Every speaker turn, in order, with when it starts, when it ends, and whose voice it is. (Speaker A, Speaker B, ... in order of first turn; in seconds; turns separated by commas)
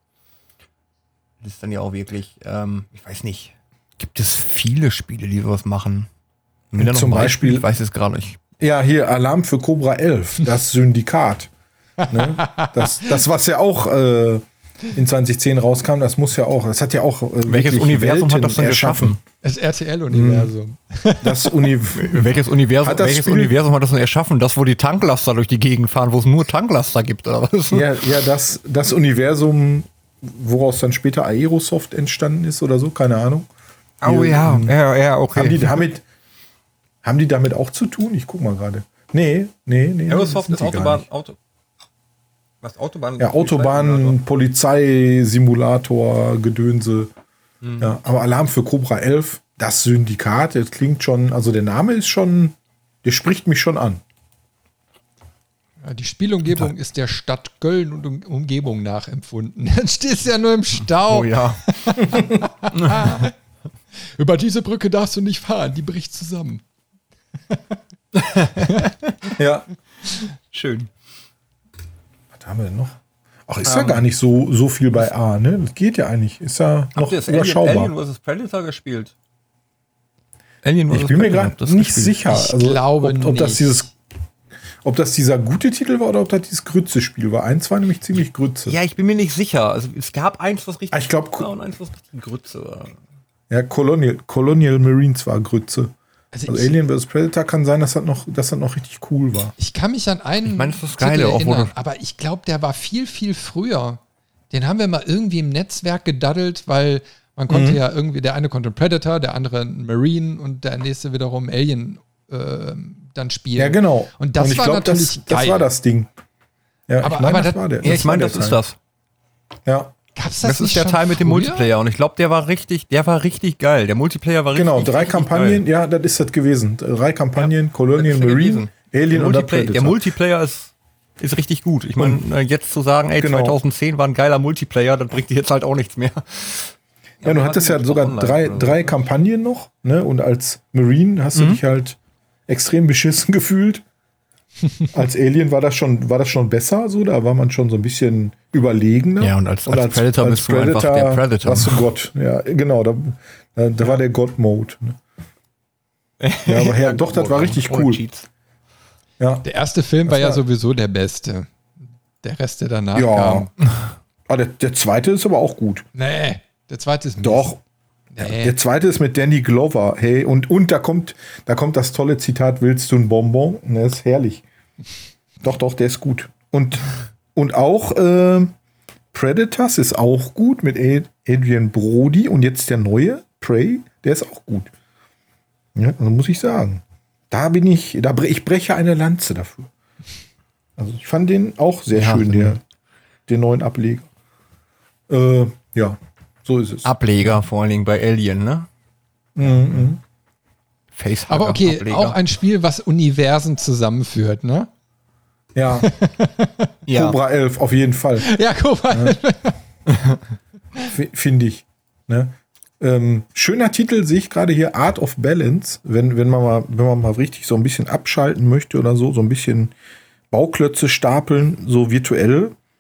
Speaker A: 1.4-6.1, Speaker A: 6.7-8.4, Speaker B: 6.8-7.6, Speaker B: 8.6-11.5, Speaker C: 12.0-13.1, Speaker B: 12.1-19.1, Speaker A: 17.4-19.2, Speaker C: 19.4-21.6, Speaker B: 20.1-20.5, Speaker B: 21.2-23.5, Speaker A: 21.9-28.1, Speaker B: 27.7-33.5, Speaker B: 34.0-34.7, Speaker A: 34.0-35.8, Speaker B: 35.3-36.0, Speaker B: 37.0-41.0, Speaker A: 40.1-41.4, Speaker A: 42.6-44.2, Speaker B: 43.2-47.1, Speaker A: 47.6-47.9, Speaker B: 47.8-54.0, Speaker C: 55.8-63.3, Speaker A: 61.1-61.7, Speaker B: 62.1-62.4, Speaker A: 62.7-63.3, Speaker C: 64.1-66.6, Speaker C: 67.5-67.8, Speaker A: 68.2-68.9, Speaker C: 68.6-69.3, Speaker B: 69.4-69.7, Speaker A: 70.5-70.9, Speaker B: 72.3-77.9, Speaker A: 73.6-74.0, Speaker A: 77.0-79.1, Speaker A: 80.6-82.2, Speaker B: 80.9-83.9, Speaker C: 82.3-83.9, Speaker B: 84.8-88.8, Speaker A: 88.7-93.0, Speaker B: 90.9-91.5, Speaker B: 93.5-95.9, Speaker C: 96.3-96.8, Speaker B: 96.5-99.5, Speaker C: 99.6-104.0, Speaker A: 100.5-101.7, Speaker C: 104.5-115.6, Speaker B: 107.5-107.8, Speaker B: 113.5-116.1, Speaker B: 116.9-118.6, Speaker C: 117.0-117.7, Speaker A: 117.8-118.8, Speaker B: 119.7-119.9, Speaker C: 120.1-121.7, Speaker A: 120.4-125.6, Speaker B: 124.5-130.0, Speaker A: 127.4-138.9, Speaker B: 132.0-132.2, Speaker B: 133.2-133.6, Speaker B: 137.2-143.8, Speaker A: 141.3-141.6, Speaker B: 144.9-155.0, Speaker A: 149.2-151.9, Speaker A: 156.2-158.3, Speaker B: 156.4-158.0, Speaker B: 159.2-159.4, Speaker C: 159.4-161.5, Speaker B: 160.1-160.4, Speaker C: 162.2-163.5, Speaker B: 162.9-163.5, Speaker B: 164.3-165.8, Speaker C: 165.9-167.5, Speaker B: 167.2-167.6, Speaker C: 168.1-168.5, Speaker B: 168.2-174.4, Speaker B: 175.4-178.5, Speaker B: 179.1-184.7, Speaker B: 185.7-189.7, Speaker B: 190.8-192.6, Speaker A: 191.9-192.6, Speaker B: 193.3-194.1, Speaker B: 195.1-197.4, Speaker A: 196.8-198.7, Speaker B: 199.4-200.0, Speaker A: 199.4-199.8, Speaker A: 200.9-202.2, Speaker C: 201.3-204.7, Speaker B: 205.5-205.9, Speaker C: 205.8-206.7, Speaker A: 206.8-207.2, Speaker B: 206.9-208.3, Speaker C: 208.2-209.6, Speaker B: 208.9-209.2, Speaker B: 210.9-219.7, Speaker B: 220.3-222.5